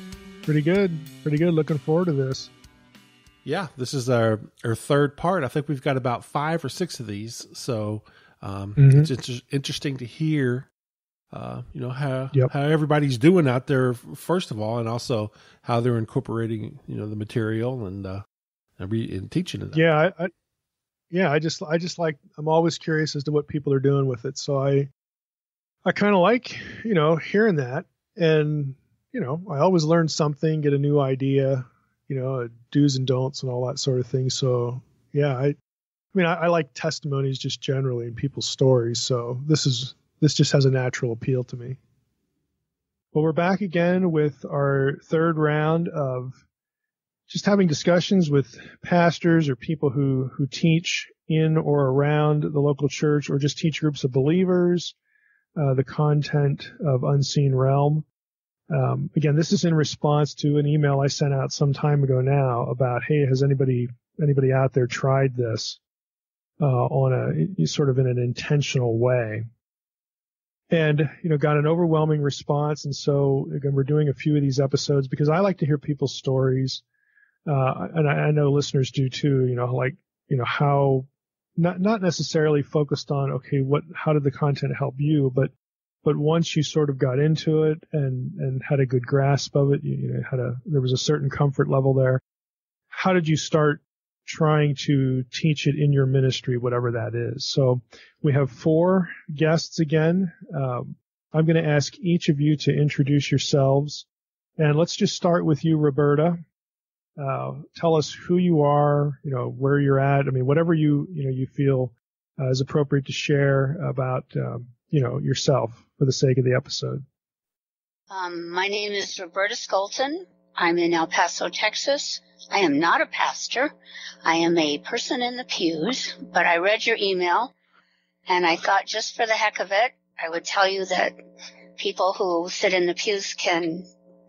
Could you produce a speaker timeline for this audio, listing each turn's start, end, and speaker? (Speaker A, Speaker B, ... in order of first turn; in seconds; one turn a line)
Speaker A: 0.5-2.5
Speaker B: 3.5-10.7
Speaker A: 8.8-9.1
Speaker B: 11.3-18.2
Speaker B: 18.8-19.8
Speaker A: 19.7-20.3
Speaker A: 21.1-24.9
Speaker A: 25.9-35.6
Speaker A: 36.1-41.8
Speaker A: 43.1-46.4
Speaker A: 47.3-55.0
Speaker A: 55.6-58.1
Speaker A: 58.7-65.8
Speaker A: 66.6-69.5
Speaker A: 70.7-76.8
Speaker A: 77.5-85.5
Speaker A: 86.0-92.2
Speaker A: 92.9-104.1
Speaker A: 104.6-106.4
Speaker A: 107.2-117.0
Speaker C: 118.1-123.7
Speaker C: 124.2-127.5
Speaker C: 128.3-131.2
Speaker C: 131.8-133.9